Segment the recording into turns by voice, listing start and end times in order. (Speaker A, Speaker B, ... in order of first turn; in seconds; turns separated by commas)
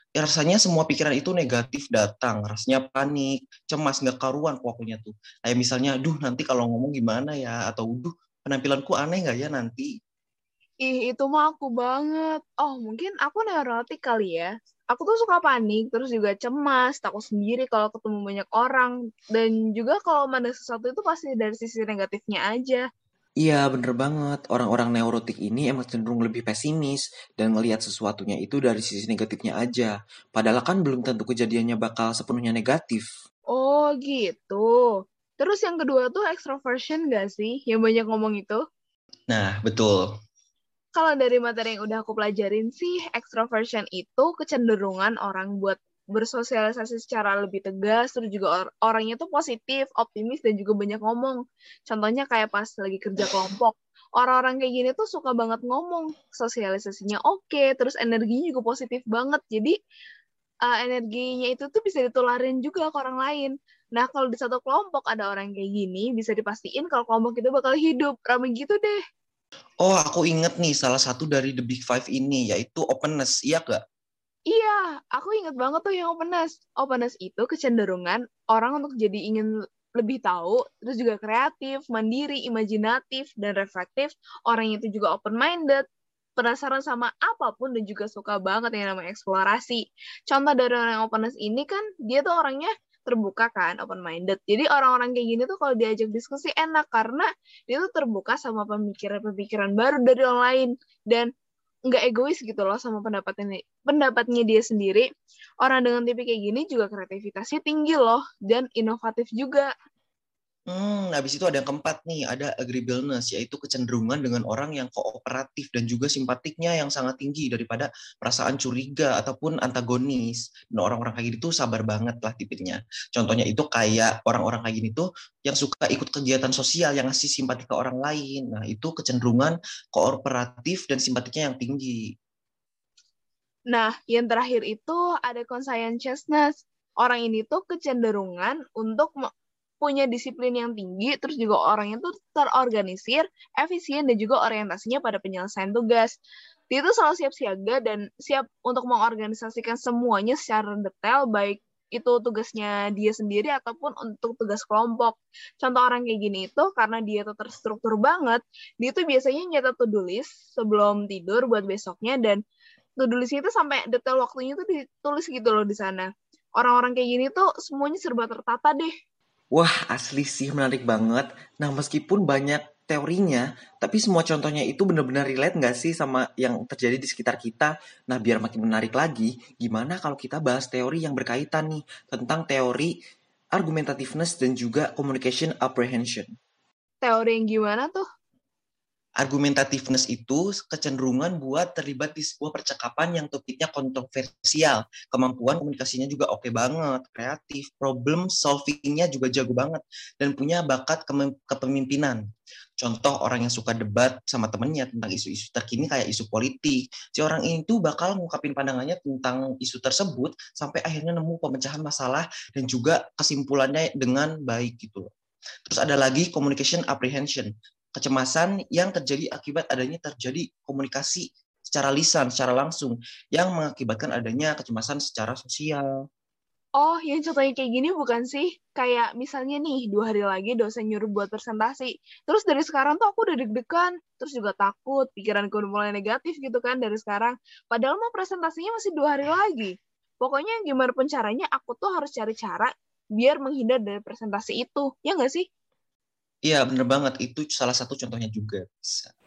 Speaker A: 0.2-9.9, Speaker B: 10.8-22.8, Speaker A: 23.4-33.1, Speaker B: 33.5-38.6, Speaker A: 39.3-40.0, Speaker B: 41.0-59.8, Speaker B: 60.6-69.0, Speaker A: 69.8-73.8, Speaker B: 74.5-85.8, Speaker B: 86.4-101.3, Speaker B: 101.9-105.1, Speaker B: 105.6-109.7, Speaker A: 110.7-132.0, Speaker B: 133.7-139.3, Speaker B: 139.8-146.1, Speaker B: 146.7-162.4, Speaker B: 163.0-168.9, Speaker A: 169.5-182.9, Speaker A: 183.6-186.3, Speaker B: 187.0-188.1, Speaker A: 189.2-202.2, Speaker A: 202.8-215.1, Speaker A: 215.7-225.9, Speaker B: 226.8-245.5, Speaker A: 246.5-249.1